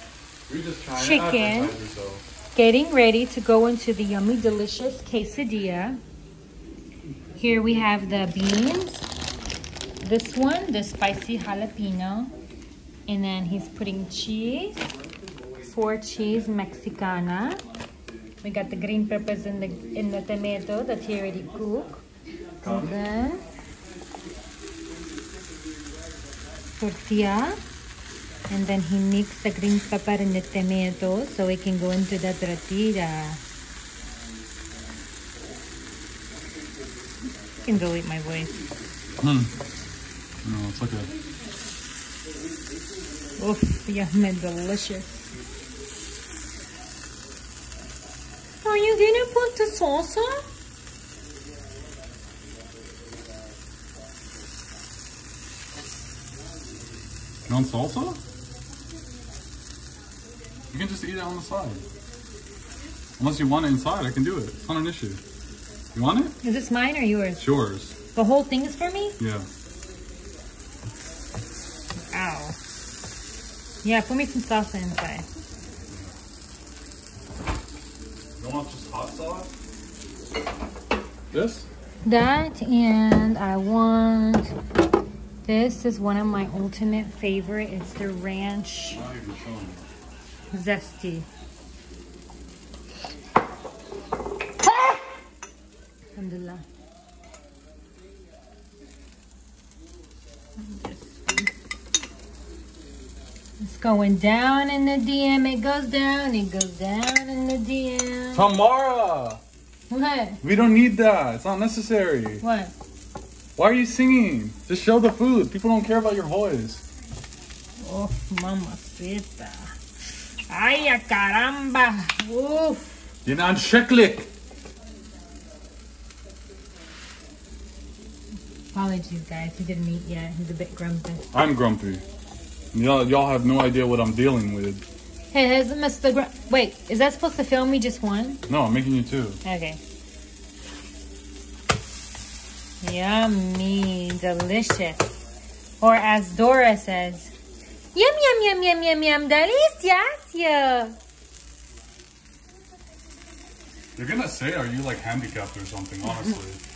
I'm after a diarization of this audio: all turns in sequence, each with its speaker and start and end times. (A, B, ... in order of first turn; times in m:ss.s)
0:00.5-0:02.2 A
0:00.9-0:01.8 B
0:02.5-0:06.0 B
0:07.3-0:09.0 B
0:10.0-0:12.3 B
0:13.1-0:14.9 B
0:15.6-0:17.6 B
0:18.4-0:22.0 B
0:22.6-0:23.0 A
0:22.6-0:23.4 B
0:26.8-0:27.6 B
0:28.5-0:33.4 B
0:37.6-0:38.6 B
0:39.2-0:39.5 A
0:40.4-0:41.1 A
0:43.4-0:45.3 B
0:48.6-0:50.4 B
0:57.4-0:58.2 A
1:00.7-1:01.8 A
1:03.2-1:05.2 A
1:05.9-1:06.3 A
1:06.4-1:07.4 B
1:07.4-1:08.0 A
1:08.1-1:09.2 B
1:09.2-1:09.5 A
1:12.1-1:12.6 B
1:13.8-1:15.2 B
1:15.9-1:16.1 A
1:18.4-1:19.5 A
1:21.3-1:21.7 A
1:22.0-1:24.5 B
1:25.4-1:29.0 B
1:28.9-1:29.9 A
1:30.5-1:31.3 B
1:36.1-1:36.6 B
1:40.6-1:41.5 B
1:43.6-1:48.5 B
1:48.3-1:49.4 A
1:49.9-1:50.4 B
1:50.4-1:52.4 A
1:52.4-1:52.7 B
1:53.6-1:56.8 A
1:57.8-1:59.8 B
2:00.5-2:03.1 B
2:03.2-2:04.3 A
2:08.7-2:11.3 B
2:11.3-2:12.0 A
2:12.7-2:14.8 A
2:15.3-2:18.4 B
2:18.5-2:19.4 A
2:19.4-2:19.8 B
2:22.8-2:25.1 B
2:25.8-2:27.3 B
2:27.9-2:31.0 B
2:34.0-2:36.6 A
2:36.0-2:36.3 B